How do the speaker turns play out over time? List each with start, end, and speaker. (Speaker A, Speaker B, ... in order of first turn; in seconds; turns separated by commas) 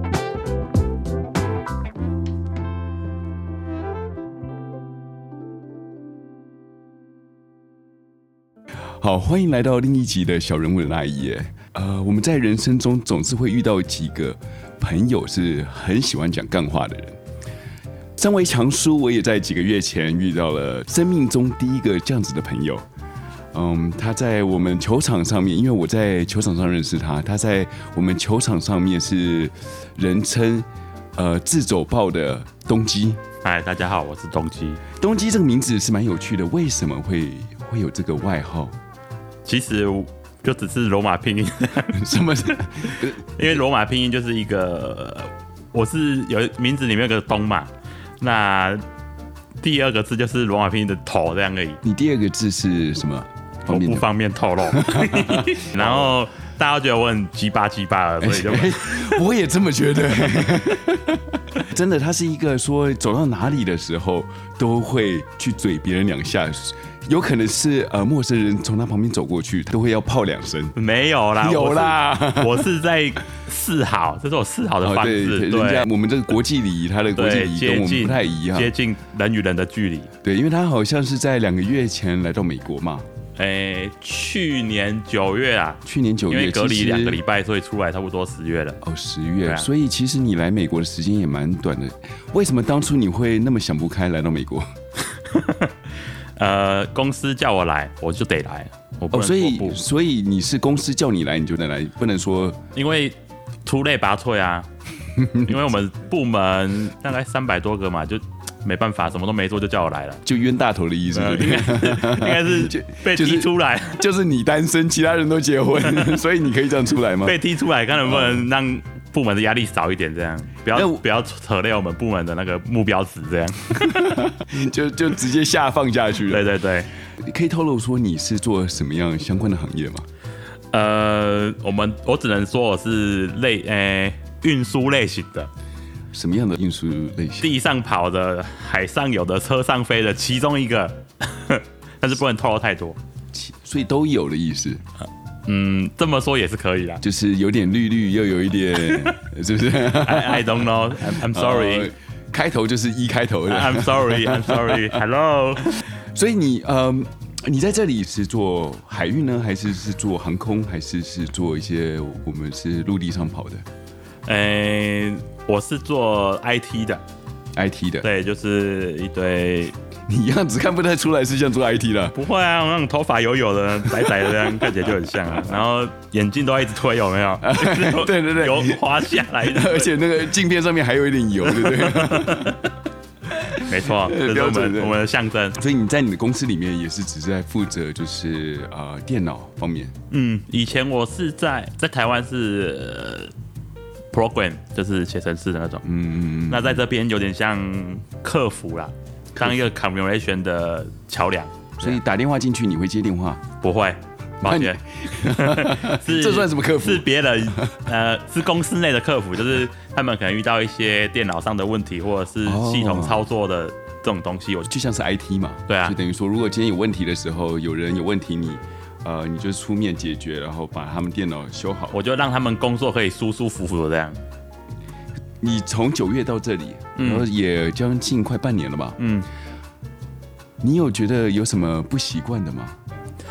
Speaker A: 8.8-17.2, Speaker A: 18.2-22.9, Speaker A: 23.5-33.2, Speaker B: 33.4-34.8, Speaker A: 34.9-38.8, Speaker B: 39.5-48.8, Speaker A: 41.9-43.5, Speaker B: 49.6-51.8, Speaker A: 51.8-56.2, Speaker B: 53.6-59.2, Speaker A: 58.2-70.7, Speaker B: 70.8-75.9, Speaker A: 71.4-72.7, Speaker A: 74.8-78.7, Speaker B: 77.1-80.1, Speaker A: 80.2-83.0, Speaker B: 83.4-88.8, Speaker A: 85.8-87.2, Speaker A: 88.8-94.7, Speaker B: 95.1-95.7, Speaker B: 96.4-99.8, Speaker A: 99.1-102.6, Speaker B: 102.7-104.7, Speaker A: 105.1-105.6, Speaker B: 105.4-110.2, Speaker A: 110.2-117.4, Speaker B: 111.1-114.0, Speaker B: 115.8-116.1, Speaker B: 117.2-124.0, Speaker A: 118.0-118.4, Speaker A: 120.7-121.0, Speaker A: 123.7-126.5, Speaker B: 126.2-126.9, Speaker A: 127.1-130.1, Speaker B: 130.7-135.5, Speaker A: 136.1-137.5, Speaker B: 137.4-143.0, Speaker A: 143.3-144.8, Speaker B: 145.5-147.0, Speaker A: 147.0-155.0, Speaker B: 148.8-149.2, Speaker B: 150.0-151.9, Speaker B: 153.5-155.8, Speaker A: 155.6-163.7, Speaker B: 164.2-167.0, Speaker A: 167.5-168.1, Speaker B: 168.0-169.7, Speaker A: 170.1-172.2, Speaker B: 172.1-179.9, Speaker A: 173.9-174.7, Speaker A: 177.4-182.6, Speaker B: 181.5-182.7, Speaker A: 183.3-185.0, Speaker B: 183.5-185.6, Speaker A: 185.5-189.9, Speaker B: 190.1-193.3, Speaker B: 194.1-195.8, Speaker A: 195.8-196.8, Speaker B: 196.5-202.0, Speaker A: 201.8-203.4, Speaker B: 203.6-214.7, Speaker A: 204.4-207.7, Speaker A: 212.4-213.2, Speaker A: 214.7-222.0, Speaker B: 215.7-215.9, Speaker B: 221.9-224.2, Speaker A: 225.4-229.0, Speaker B: 226.9-227.2, Speaker B: 229.0-229.3, Speaker A: 230.6-232.8